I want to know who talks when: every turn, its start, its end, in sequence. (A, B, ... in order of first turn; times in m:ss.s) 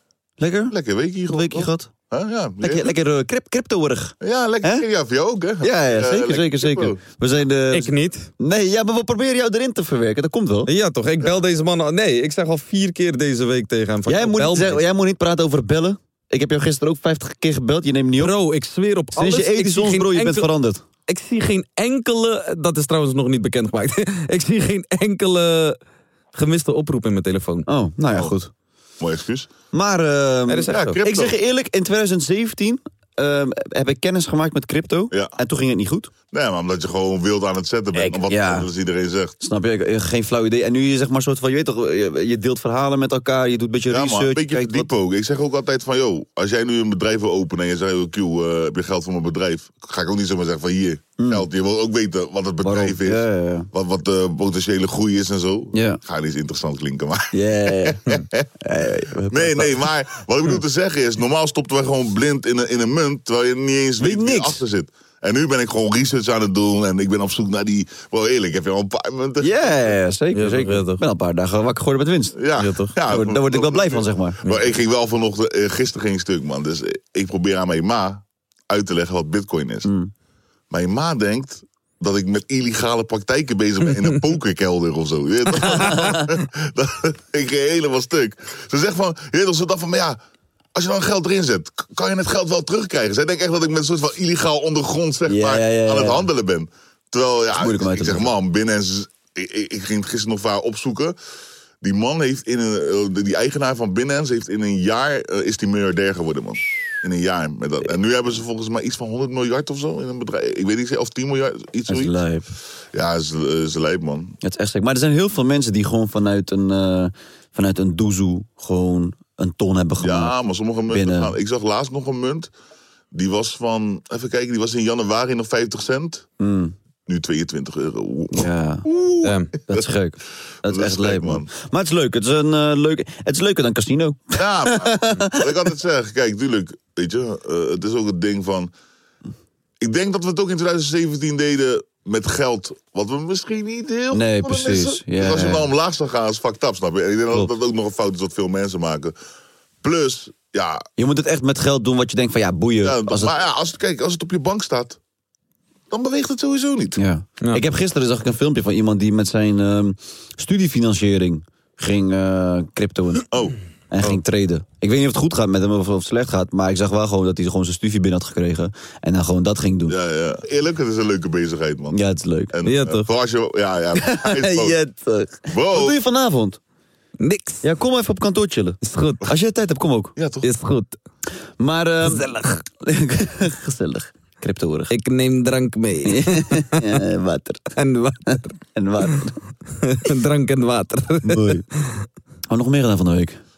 0:00.4-0:00.7 A
0:00.7-0:02.9 B
0:01.3-0:01.9 A
0:02.6-0:04.8 A
0:04.2-0:07.0 B
0:05.6-0:10.7 A
0:07.7-0:08.3 C
0:10.6-0:14.8 C
0:14.0-0:18.3 A
0:18.2-0:20.5 C
0:19.2-0:20.8 A
0:21.1-0:25.8 C
0:26.3-0:27.7 C
0:27.7-0:28.5 A
0:29.0-0:29.5 B
0:29.7-0:36.1 A
0:30.5-0:31.0 C
0:30.7-0:31.3 B
0:36.3-0:39.4 B
0:37.9-0:38.7 A
0:39.4-0:44.9 A
0:43.9-0:58.4 B
0:51.2-0:51.4 A
0:52.6-0:53.7 A
0:55.7-0:56.0 A
0:57.3-0:58.0 A
0:58.6-0:59.8 A
0:59.3-1:09.5 B
1:04.0-1:04.6 A
1:09.4-1:12.4 A
1:10.3-1:11.0 C
1:12.4-1:19.9 B
1:12.6-1:12.9 C
1:13.0-1:14.4 A
1:19.8-1:20.1 A
1:20.7-1:30.2 B
1:25.6-1:26.3 A
1:30.7-1:41.2 B
1:35.2-1:36.2 A
1:37.6-1:38.3 A
1:41.8-1:52.1 B
1:51.9-1:52.5 A
1:52.9-1:54.4 B
1:54.4-2:00.3 A
2:00.0-2:02.5 B
2:00.9-2:01.3 A
2:03.1-2:06.3 B
2:06.4-2:06.7 A
2:07.1-2:09.9 B
2:08.3-2:08.8 A
2:09.2-2:09.5 C
2:09.7-2:15.4 A
2:10.6-2:11.5 B
2:14.3-2:18.7 B
2:19.8-2:29.1 B
2:24.1-2:25.7 A
2:29.8-2:30.8 B
2:31.0-2:33.3 A
2:32.8-2:35.0 B
2:35.9-2:37.0 B
2:37.0-2:43.3 A
2:43.3-2:43.6 B
2:43.9-2:49.9 A
2:49.9-2:52.0 B
2:51.9-2:52.5 A
2:52.5-2:54.8 B
2:52.6-2:53.1 C
2:54.0-2:56.6 A
2:55.5-2:56.0 B
2:57.2-2:57.6 C
2:57.6-3:00.1 A
2:58.8-2:59.3 C
3:00.2-3:00.5 B
3:00.4-3:00.9 C
3:01.6-3:04.9 A
3:02.0-3:02.6 C
3:04.9-3:06.8 C
3:06.0-3:07.7 A
3:07.8-3:08.6 C
3:08.3-3:09.4 A
3:09.8-3:11.6 C
3:11.2-3:11.6 A
3:12.5-3:13.4 A